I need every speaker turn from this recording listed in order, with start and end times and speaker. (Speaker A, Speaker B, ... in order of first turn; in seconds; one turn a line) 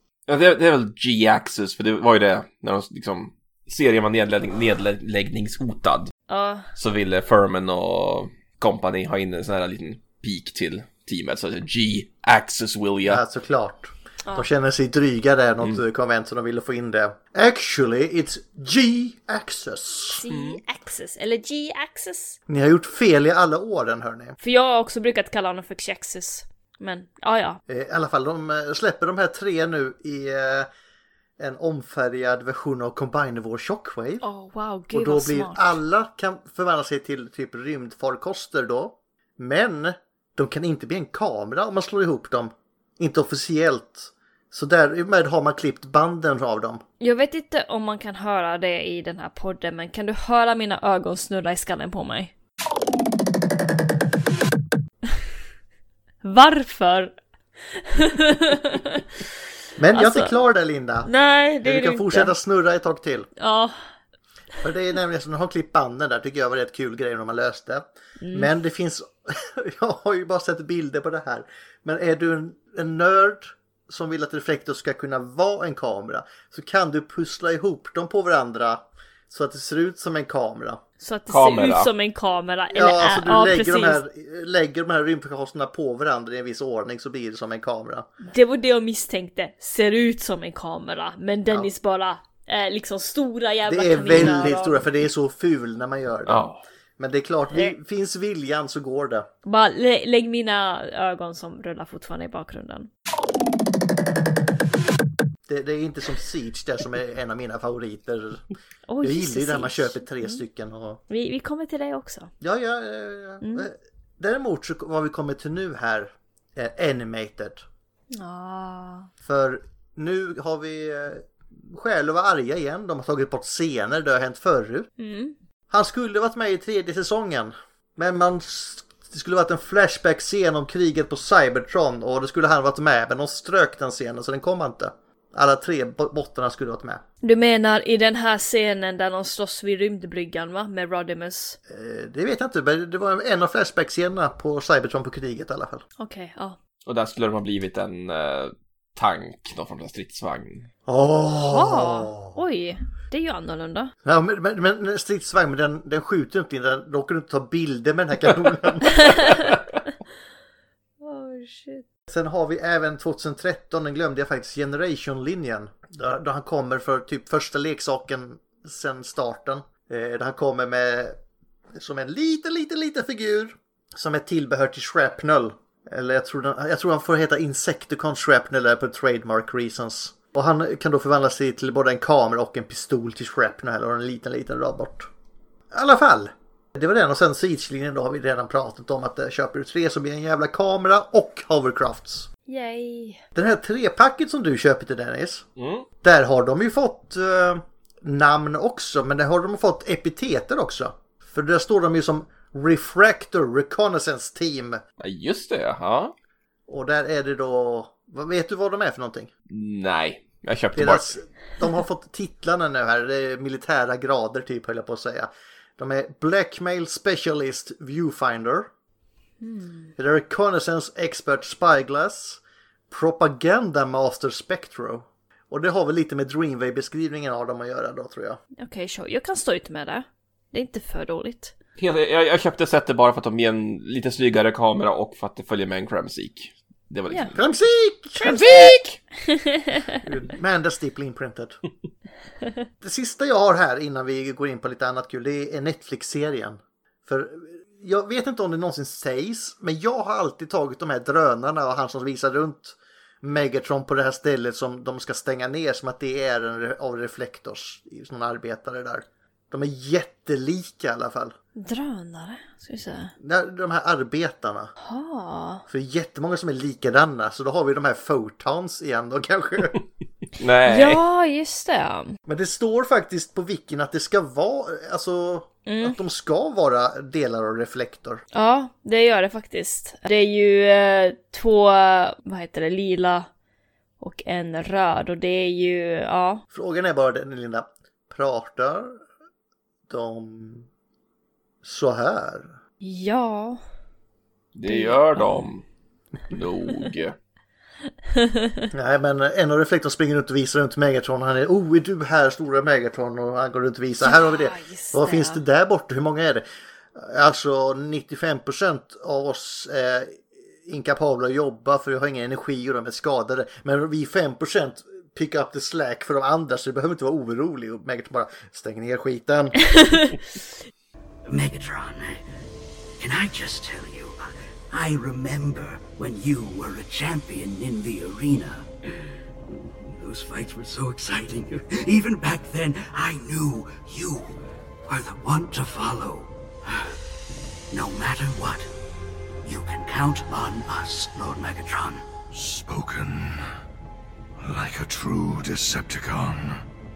Speaker A: 0.3-6.1
Speaker B: 6.3-6.7
Speaker A: 6.8-13.2
Speaker C: 13.1-20.2
Speaker B: 20.1-22.4
Speaker A: 20.3-20.6
Speaker C: 22.5-24.3
Speaker B: 24.4-27.6
Speaker C: 27.7-30.7
Speaker C: 31.4-34.2
Speaker B: 34.2-35.8
Speaker C: 34.9-46.8
Speaker B: 47.0-52.3
Speaker B: 56.2-57.1
Speaker B: 57.7-59.2
Speaker C: 59.8-61.1
Speaker B: 59.9-60.3
Speaker B: 61.0-62.3
Speaker C: 61.6-63.3
Speaker B: 63.4-63.8
Speaker C: 64.6-80.8
Speaker B: 68.2-68.5
Speaker B: 81.0-84.0
Speaker A: 81.3-81.9
Speaker C: 82.7-88.1
Speaker B: 88.2-94.9
Speaker C: 93.6-96.4
Speaker A: 96.3-96.6
Speaker C: 97.0-99.3
Speaker B: 99.5-102.9
Speaker C: 105.5-108.4
Speaker B: 108.9-110.4
Speaker C: 109.0-111.0
Speaker B: 111.1-112.3
Speaker C: 112.4-117.6
Speaker B: 113.4-113.7
Speaker B: 118.1-119.1
Speaker C: 119.2-124.9
Speaker B: 125.0-125.3
Speaker C: 125.7-137.0
Speaker B: 137.2-141.6
Speaker C: 141.7-145.8
Speaker B: 146.0-146.6
Speaker A: 146.8-150.7
Speaker C: 150.8-152.4
Speaker B: 151.4-153.9
Speaker C: 154.0-159.3
Speaker B: 158.9-159.6
Speaker B: 161.0-161.8
Speaker C: 162.1-171.2
Speaker C: 171.7-185.1
Speaker C: 185.7-192.3
Speaker B: 192.5-193.2
Speaker C: 193.3-195.4
Speaker A: 195.6-195.9
Speaker C: 196.0-204.8
Speaker A: 205.0-206.1
Speaker C: 206.7-209.3
Speaker A: 209.5-211.2
Speaker C: 210.7-218.7
Speaker B: 219.4-219.9
Speaker C: 220.0-228.4
Speaker B: 228.6-231.5
Speaker A: 231.8-237.4
Speaker C: 237.3-238.7
Speaker B: 238.2-240.0
Speaker C: 240.0-241.6
Speaker C: 242.8-261.3
Speaker B: 261.6-263.1
Speaker C: 263.2-264.7
Speaker B: 264.8-265.6
Speaker C: 265.7-269.8
Speaker A: 270.4-271.0
Speaker B: 270.6-272.2
Speaker C: 272.3-278.2
Speaker B: 275.6-276.0
Speaker B: 278.3-283.3
Speaker B: 284.0-286.4
Speaker C: 286.5-289.0
Speaker C: 289.9-290.7
Speaker C: 291.6-292.6
Speaker B: 292.8-293.6
Speaker A: 294.5-295.6
Speaker B: 294.6-295.5
Speaker A: 296.3-297.1
Speaker B: 298.1-298.7
Speaker C: 298.7-319.7
Speaker B: 304.0-305.4
Speaker B: 319.7-320.1
Speaker D: 321.2-322.2
Speaker D: 323.0-328.7
Speaker D: 329.5-336.9
Speaker D: 337.7-338.7
Speaker D: 339.4-342.0
Speaker E: 342.3-343.5
Speaker E: 344.4-346.6